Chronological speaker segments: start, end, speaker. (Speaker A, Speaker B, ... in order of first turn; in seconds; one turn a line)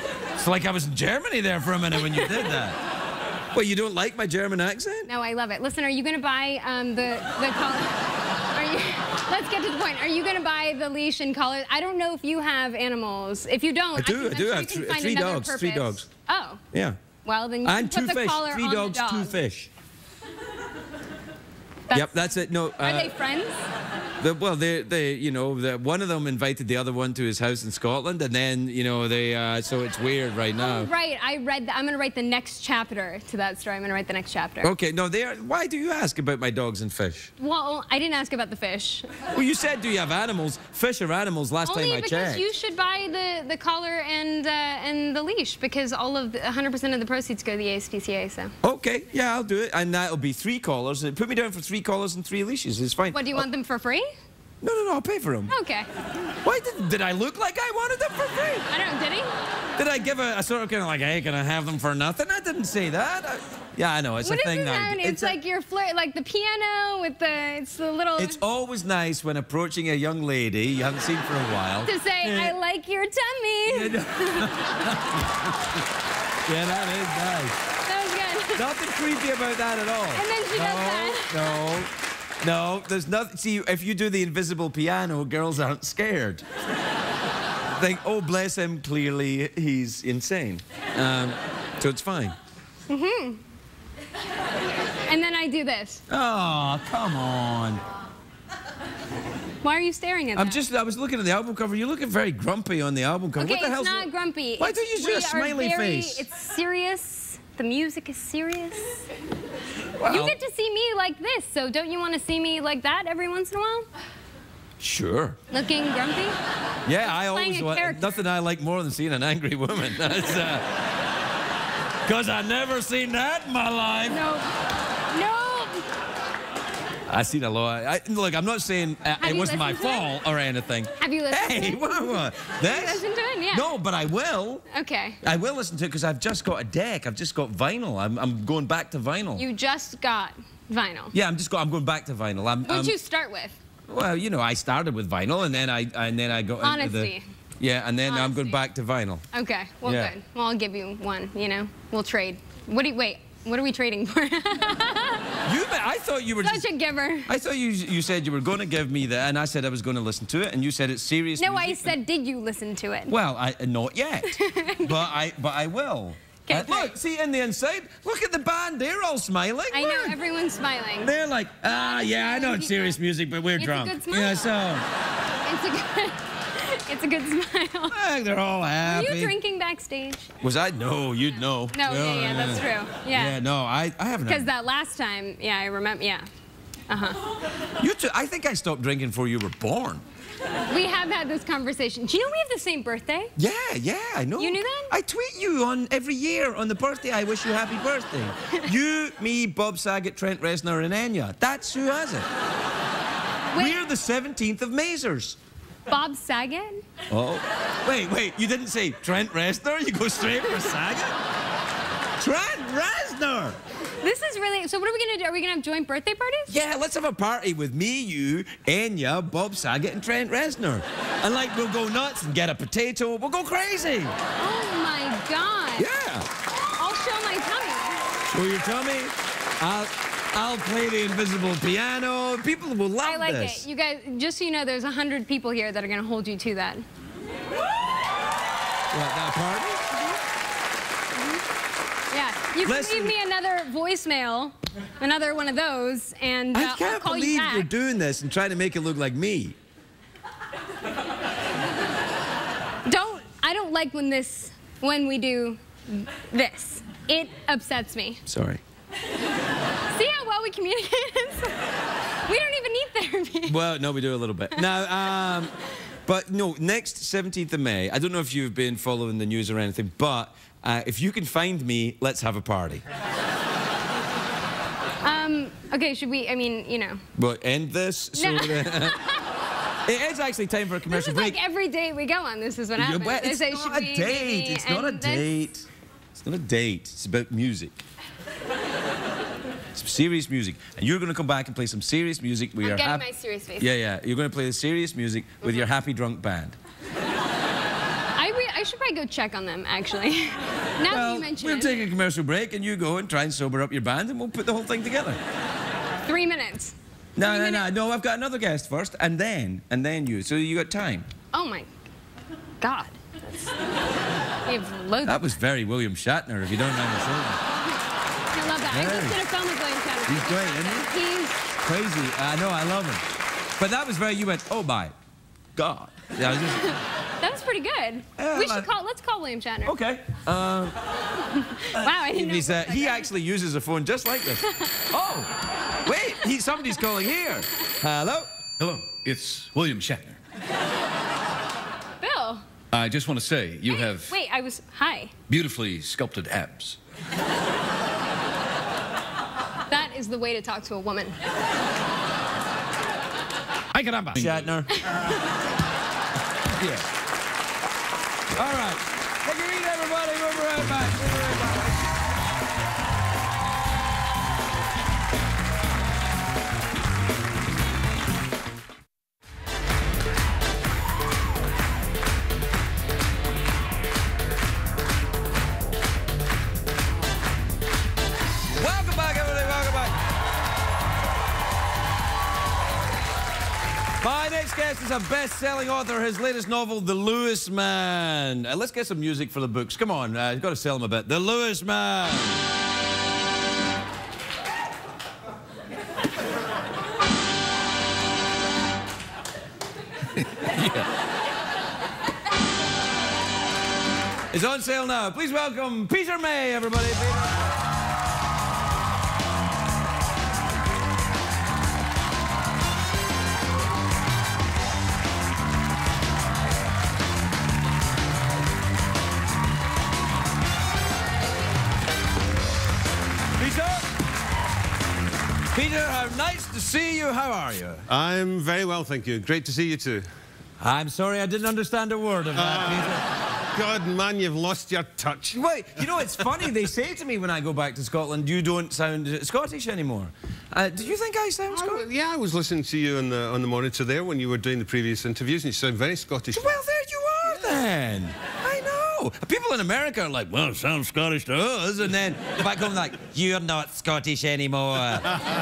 Speaker A: 0.4-2.8
Speaker B: 2.1-2.5
Speaker A: 3.5-5.1
Speaker B: 5.1-16.6
Speaker A: 13.9-16.1
Speaker A: 16.7-17.0
Speaker B: 17.2-19.4
Speaker A: 17.6-19.7
Speaker B: 21.9-23.6
Speaker A: 21.9-23.1
Speaker A: 24.2-30.9
Speaker B: 30.6-34.7
Speaker A: 34.6-37.3
Speaker B: 37.4-39.2
Speaker A: 39.3-42.4
Speaker B: 41.6-48.5
Speaker A: 48.6-53.5
Speaker B: 53.1-54.1
Speaker A: 54.6-55.5
Speaker B: 55.5-55.9
Speaker A: 56.4-58.6
Speaker B: 58.7-59.3
Speaker A: 59.8-65.3
Speaker B: 64.2-68.4
Speaker A: 68.2-72.6
Speaker B: 71.8-74.8
Speaker A: 73.7-75.8
Speaker A: 76.5-77.5
Speaker B: 77.8-78.7
Speaker A: 78.5-81.9
Speaker B: 80.1-81.6
Speaker A: 82.4-86.4
Speaker A: 87.7-92.3
Speaker B: 92.9-93.4
Speaker B: 95.1-96.0
Speaker A: 96.1-97.8
Speaker B: 99.6-100.6
Speaker A: 100.3-104.1
Speaker B: 103.4-109.0
Speaker A: 104.6-106.2
Speaker A: 110.0-110.4
Speaker B: 110.0-113.8
Speaker A: 114.8-115.4
Speaker B: 115.5-116.4
Speaker A: 116.8-120.7
Speaker B: 117.0-118.2
Speaker A: 122.0-124.2
Speaker B: 124.1-124.5
Speaker B: 125.1-125.9
Speaker A: 127.1-133.0
Speaker B: 129.2-130.1
Speaker B: 131.0-133.7
Speaker A: 133.5-134.6
Speaker B: 134.7-135.2
Speaker A: 135.2-139.4
Speaker B: 139.4-141.1
Speaker A: 141.1-142.9
Speaker B: 142.7-143.6
Speaker A: 143.9-149.2
Speaker B: 146.6-147.3
Speaker B: 148.1-148.6
Speaker B: 149.3-155.2
Speaker A: 149.8-150.1
Speaker A: 155.4-156.7
Speaker B: 156.4-157.3
Speaker A: 157.2-161.9
Speaker B: 161.4-163.1
Speaker A: 163.1-170.2
Speaker B: 164.3-165.1
Speaker B: 166.5-166.9
Speaker B: 169.7-173.0
Speaker A: 171.0-174.8
Speaker B: 173.6-174.7
Speaker B: 175.4-178.0
Speaker A: 177.9-179.3
Speaker B: 178.8-180.3
Speaker A: 180.4-184.5
Speaker B: 181.7-183.4
Speaker B: 184.3-186.2
Speaker B: 186.9-187.2
Speaker A: 187.8-190.0
Speaker B: 190.7-193.3
Speaker A: 193.3-202.3
Speaker B: 194.4-194.9
Speaker B: 203.5-203.8
Speaker A: 203.5-205.4
Speaker B: 205.9-206.8
Speaker A: 207.1-211.2
Speaker A: 212.2-213.6
Speaker B: 214.0-216.5
Speaker A: 216.5-224.1
Speaker B: 224.4-225.9
Speaker A: 225.8-226.3
Speaker B: 226.8-228.1
Speaker A: 228.3-233.6
Speaker B: 233.0-236.8
Speaker A: 238.9-239.8
Speaker B: 241.2-241.4
Speaker B: 242.1-247.7
Speaker A: 242.6-243.1
Speaker A: 246.5-249.6
Speaker B: 252.8-258.2
Speaker A: 258.3-258.6
Speaker B: 259.9-263.6
Speaker A: 263.4-265.5
Speaker A: 266.1-272.8
Speaker B: 275.0-277.0
Speaker A: 277.1-279.0
Speaker B: 278.1-279.2
Speaker A: 279.9-281.4
Speaker B: 280.9-285.3
Speaker A: 282.8-285.6
Speaker A: 286.1-287.8
Speaker A: 289.7-293.0
Speaker B: 292.6-293.7
Speaker A: 293.6-296.6
Speaker B: 298.1-301.8
Speaker A: 300.9-305.2
Speaker B: 306.1-307.7
Speaker A: 307.1-311.1
Speaker B: 311.3-311.7
Speaker B: 312.6-313.0
Speaker B: 314.4-315.3
Speaker A: 315.0-317.4
Speaker B: 318.3-321.4
Speaker A: 318.7-319.2
Speaker A: 320.1-320.9
Speaker A: 321.6-323.0
Speaker A: 323.6-324.9
Speaker A: 325.6-326.7
Speaker B: 326.5-329.7
Speaker A: 328.2-328.7
Speaker A: 329.6-330.8
Speaker B: 331.4-333.1
Speaker A: 331.7-338.3
Speaker C: 338.6-340.2
Speaker B: 342.0-342.4
Speaker C: 342.7-344.1
Speaker B: 343.7-345.1
Speaker C: 345.3-346.8
Speaker B: 349.7-351.2
Speaker A: 353.7-354.9
Speaker C: 354.1-354.5
Speaker B: 354.8-355.2
Speaker C: 356.5-356.9
Speaker A: 358.3-361.8
Speaker A: 378.5-379.9
Speaker A: 384.0-392.4
Speaker C: 400.2-400.9
Speaker A: 404.3-407.4
Speaker A: 423.4-423.9
Speaker A: 425.5-427.8
Speaker D: 427.9-430.1
Speaker A: 430.6-433.0
Speaker D: 432.3-435.4
Speaker A: 435.3-441.9
Speaker D: 441.5-446.6
Speaker A: 446.3-455.1
Speaker D: 447.2-447.6